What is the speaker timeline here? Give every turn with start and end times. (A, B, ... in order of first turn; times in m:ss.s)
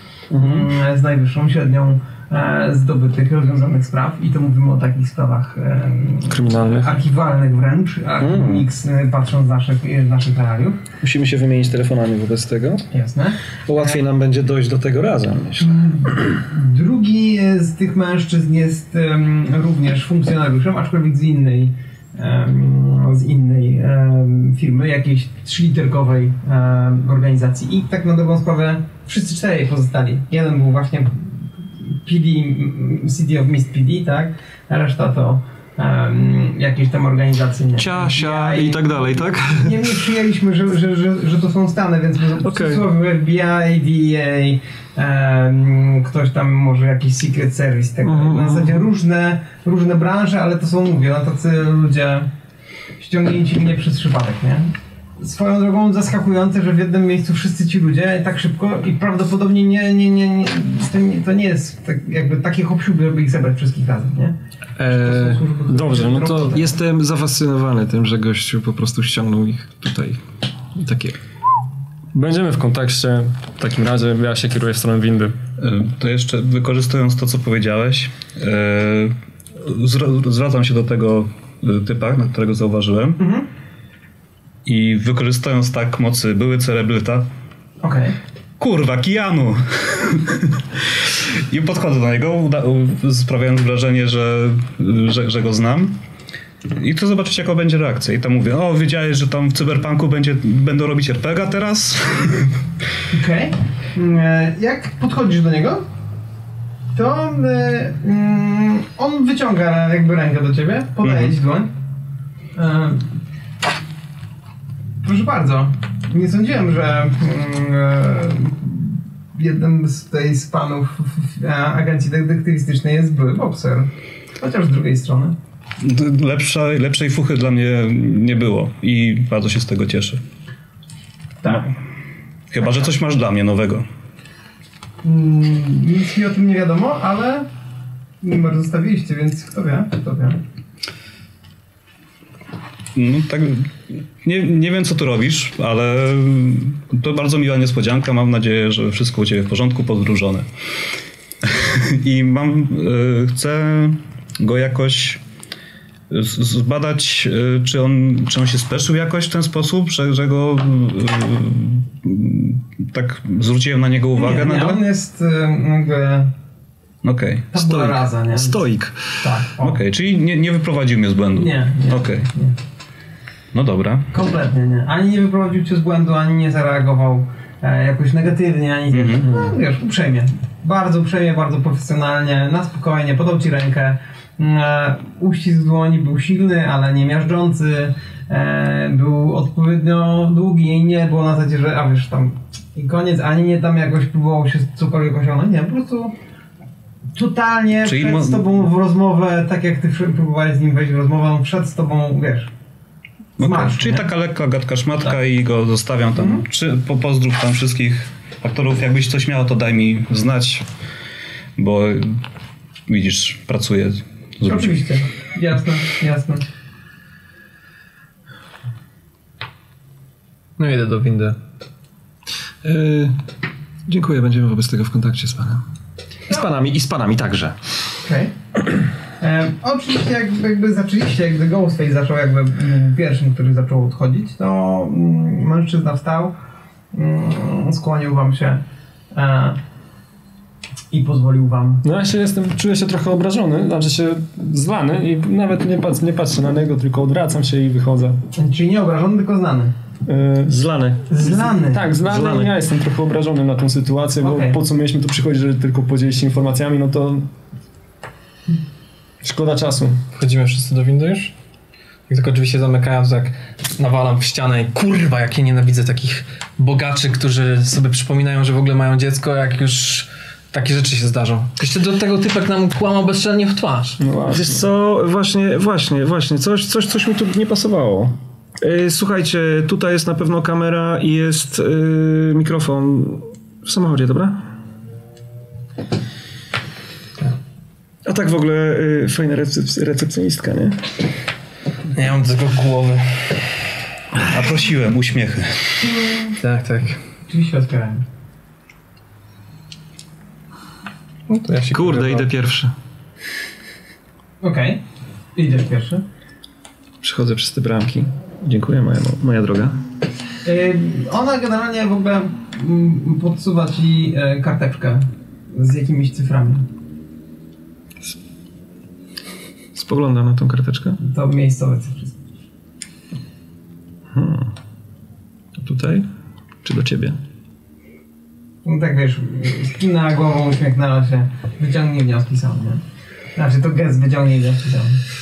0:00.3-0:00.7 A
0:00.4-0:10.8 B
0:06.3-0:06.9 C
0:08.2-0:08.6 A
0:11.0-0:12.9 A
0:12.9-0:13.4 B
0:13.7-0:15.8 A
0:15.6-0:52.3 B
0:37.8-0:40.0 A
0:42.4-0:42.8 A
0:48.0-0:48.8 A
0:53.0-1:06.7 B
1:04.8-1:06.6 C
1:06.5-1:10.2 A
1:10.7-1:11.2 A
1:12.1-1:15.4 C
1:15.6-1:23.2 D
1:23.2-1:23.5 B
1:24.6-1:27.3 D
1:27.8-1:28.2 B
1:28.6-1:36.0 D
1:36.7-1:42.6 D
1:43.1-1:45.9 B
1:46.9-1:51.7 B
1:51.0-1:51.4 D
1:52.6-1:53.2 B
1:55.0-2:05.4 B
2:05.8-2:10.2 D
2:11.4-2:11.8 B
2:12.5-2:13.9 D
2:15.0-2:17.5 B
2:18.2-2:20.4 B
2:23.0-2:30.5 D
2:31.4-2:35.2 D
2:36.1-2:44.8 D
2:44.2-2:46.3 B
2:47.0-2:47.5 D
2:47.5-2:48.6 B
2:47.6-2:49.1 A
2:49.2-2:49.8 B
2:49.6-2:52.3 D
2:51.3-2:52.6 B
2:53.5-2:54.1 D
2:54.1-3:16.2 B
2:58.9-2:59.4 D
3:17.1-3:22.5 B
3:17.8-3:18.5 D
3:23.4-3:24.1 B
3:23.4-3:30.7 D
3:26.2-3:26.4 B
3:31.6-3:32.2 D
3:32.9-3:34.8 D
3:34.4-3:36.4 B
3:40.6-3:41.4 E
3:42.6-3:43.2 A
3:43.9-3:45.6 A
3:46.3-3:47.6 A
3:48.0-3:48.4 B
3:49.2-3:56.4 B
3:56.9-3:58.6 B
3:59.1-3:59.6 B
4:00.9-4:01.8 B
4:01.8-4:08.2 C
4:08.3-4:09.7 B
4:10.1-4:10.5 C
4:10.5-4:11.1 A
4:11.1-4:11.9 B
4:11.2-4:17.3 C
4:12.0-4:12.6 A
4:14.2-4:14.6 B
4:19.2-4:20.0 C
4:20.1-4:21.3 E
4:22.1-4:34.0 E
4:34.0-4:34.6 C
4:34.3-4:44.4 A
4:48.0-4:50.9 A
4:51.9-4:53.4 E
4:54.2-4:55.9 D
4:55.8-4:56.4 B
4:56.4-4:57.0 E
4:57.3-4:58.0 B
5:01.3-5:02.3 E
5:01.7-5:02.7 A
5:04.4-5:04.8 B
5:05.4-5:06.0 B
5:07.0-5:09.8 A
5:10.4-5:16.7 B
5:19.7-5:21.0 A
5:21.0-5:22.2 B
5:24.1-5:24.5 A
5:25.6-5:26.1 A
5:26.6-5:27.2 A
5:28.6-5:32.8 B
5:33.4-5:35.0 B